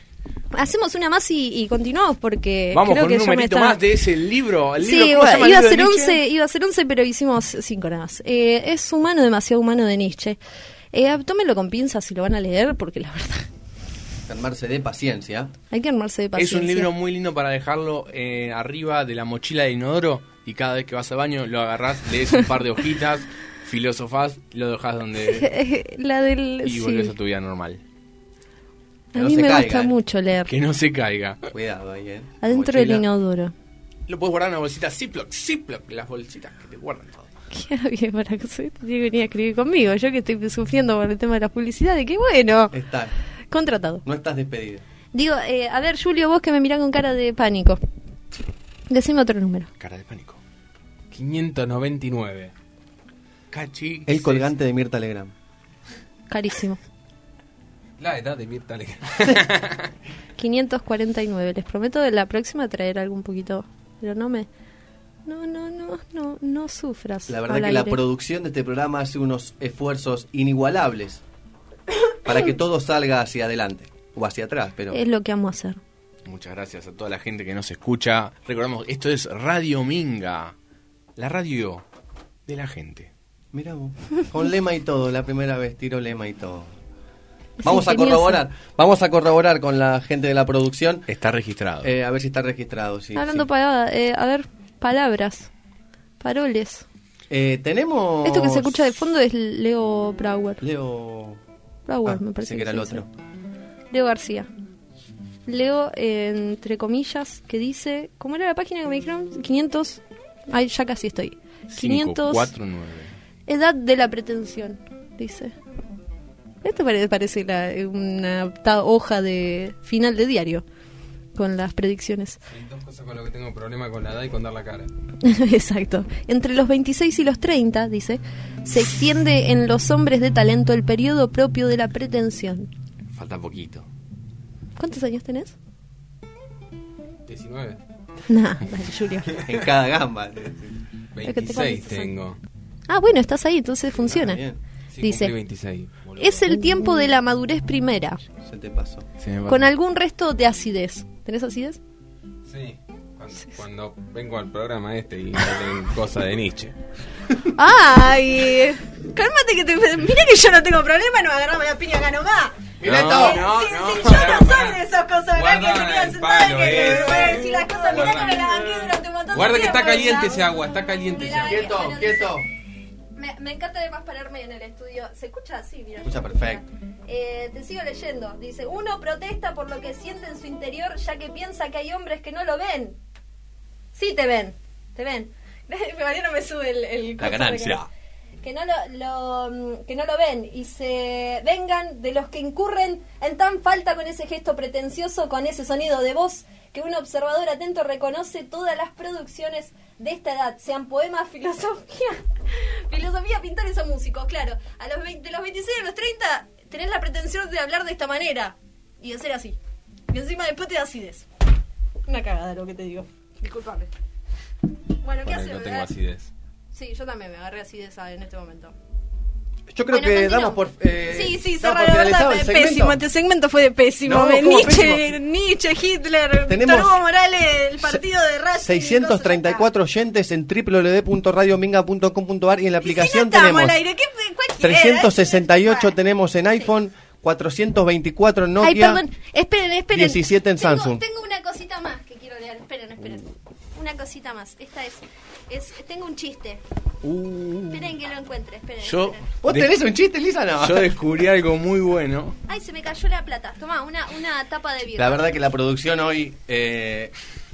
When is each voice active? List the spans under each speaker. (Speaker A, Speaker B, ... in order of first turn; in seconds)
Speaker A: 0.5-3.8, 4.8-10.4, 10.9-13.5, 15.7-16.9, 25.3-27.1, 29.1-30.5, 32.4-33.5, 37.5-42.7, 43.5-44.0, 45.1-47.8, 48.9-49.7, 56.3-56.8, 60.4-64.5, 65.2-68.0, 74.9-75.8, 87.6-88.4, 93.1-95.5, 96.2-96.8, 98.2-100.6, 101.8-103.0, 103.9-104.5, 105.5-112.5, 113.5-115.5, 116.6-120.6, 121.3-122.4, 125.2-132.7, 134.8-135.5, 138.3-139.4, 141.2-142.1, 142.9-144.4, 145.0-145.3, 146.2-148.2, 149.5-151.8, 157.5-170.5, 171.1-172.4, 173.1-183.0, 183.9-187.8, 188.4-209.6, 210.1-211.3, 212.1-213.9, 215.0-215.9, 216.7-218.7, 219.9-229.7, 232.8-235.9, 238.6-246.6, 247.7-249.3, 252.5-255.2
Speaker B: 2.7-6.2, 16.3-25.5, 26.6-27.8, 30.5-31.5, 34.1-37.3, 49.8-50.4, 53.5-54.4, 59.3-59.9, 76.2-80.5, 81.2-81.8, 82.5-83.1, 91.1-91.9, 111.7-113.1, 133.1-133.9, 149.2-149.7, 162.8-164.6, 247.0-247.9, 248.8-249.7, 250.6-252.4
Speaker C: 14.3-15.5, 29.1-29.9, 31.5-33.0, 42.7-43.1, 44.0-44.8, 54.0-55.3, 67.3-71.2, 72.2-75.0, 83.5-86.7, 87.6-91.1, 91.8-93.5, 97.3-98.9, 100.6-101.4, 102.0-103.1, 139.3-140.8, 144.0-144.6, 148.4-149.1, 162.8-163.4, 166.7-168.4, 171.4-172.5, 176.0-176.6, 187.2-187.9, 219.7-223.0, 224.0-225.1, 226.5-227.0, 228.6-233.8, 234.6-239.0, 239.9-241.0, 249.4-250.9, 254.9-257.1
Speaker D: 51.1-52.5, 58.0-59.4, 122.5-124.9, 137.3-137.8, 141.1-142.4, 144.9-146.6, 152.5-156.7, 163.0-164.8, 165.3-171.8, 215.2-216.3